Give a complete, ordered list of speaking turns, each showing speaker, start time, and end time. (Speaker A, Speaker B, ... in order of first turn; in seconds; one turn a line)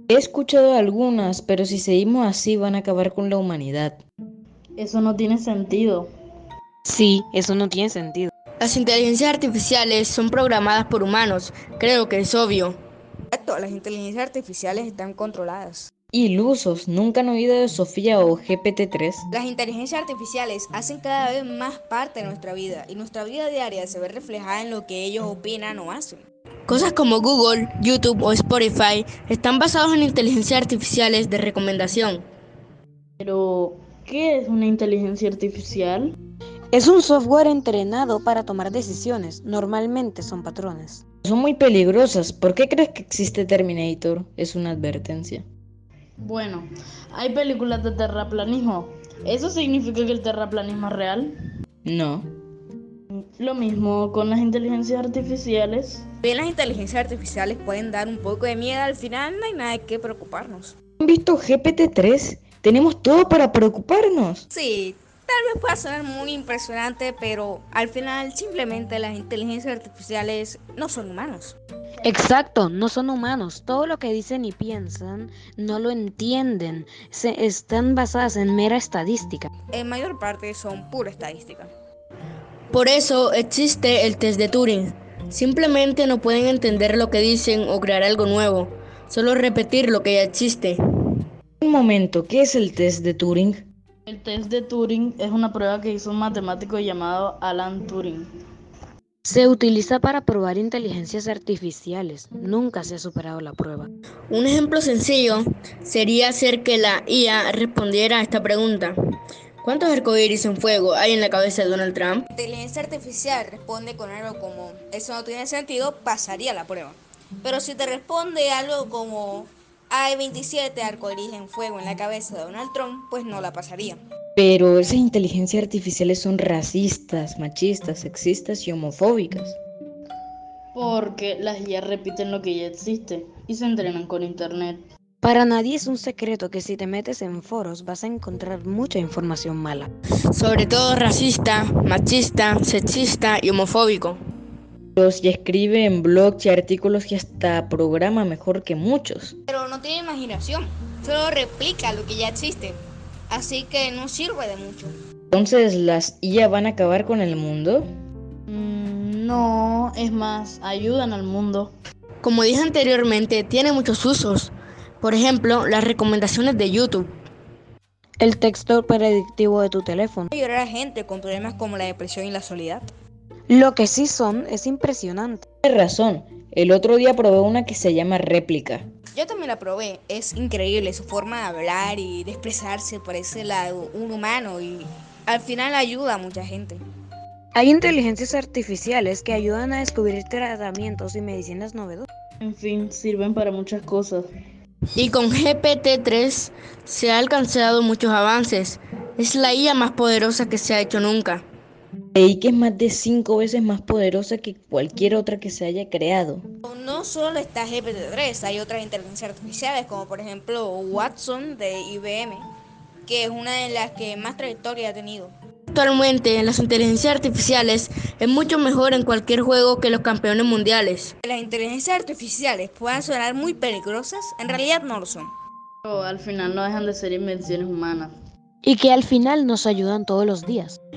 Speaker A: 0.1-4.0
Speaker B: 4.8-6.1
Speaker C: 6.8-8.3
Speaker D: 8.6-12.8
Speaker E: 13.3-15.9
Speaker A: 16.1-19.3
Speaker E: 19.3-26.2
Speaker D: 26.7-32.2
Speaker B: 33.2-36.2
Speaker C: 36.7-41.0
Speaker A: 41.2-45.5
Speaker B: 46.2-51.3
Speaker A: 51.8-52.3
Speaker B: 53.1-56.1
Speaker E: 56.2-60.8
Speaker A: 61.0-64.5
Speaker E: 64.5-71.6
Speaker C: 72.0-79.5
Speaker E: 79.7-81.7
Speaker D: 82.7-91.2
Speaker A: 91.6-93.6
Speaker B: 94.1-98.3
Speaker C: 99.2-103.9
Speaker D: 104.3-109.0
Speaker D: 109.6-112.3
Speaker E: 112.3-124.0
Speaker A: 124.4-129.6
Speaker B: 130.7-134.8
Speaker C: 135.2-139.9
Speaker D: 140.3-144.2
Speaker A: 145.0-149.3
Speaker E: 149.5-154.9
Speaker A: 155.3-157.8
Speaker B: 158.5-161.7
Speaker D: 162.2-167.1
Speaker C: 168.2-170.3
Speaker E: 170.3-172.9
Speaker C: 173.5-175.4
Speaker A: 175.6-178.8
Speaker E: 179.2-186.8
Speaker C: 187.5-192.1
Speaker B: 192.4-194.3
Speaker D: 195.0-201.4
Speaker A: 202.2-206.4
Speaker E: 206.7-212.5
Speaker E: 213.1-215.3
Speaker D: 215.7-221.1
Speaker E: 221.2-225.3
Speaker B: 225.8-228.1
Speaker C: 228.6-230.8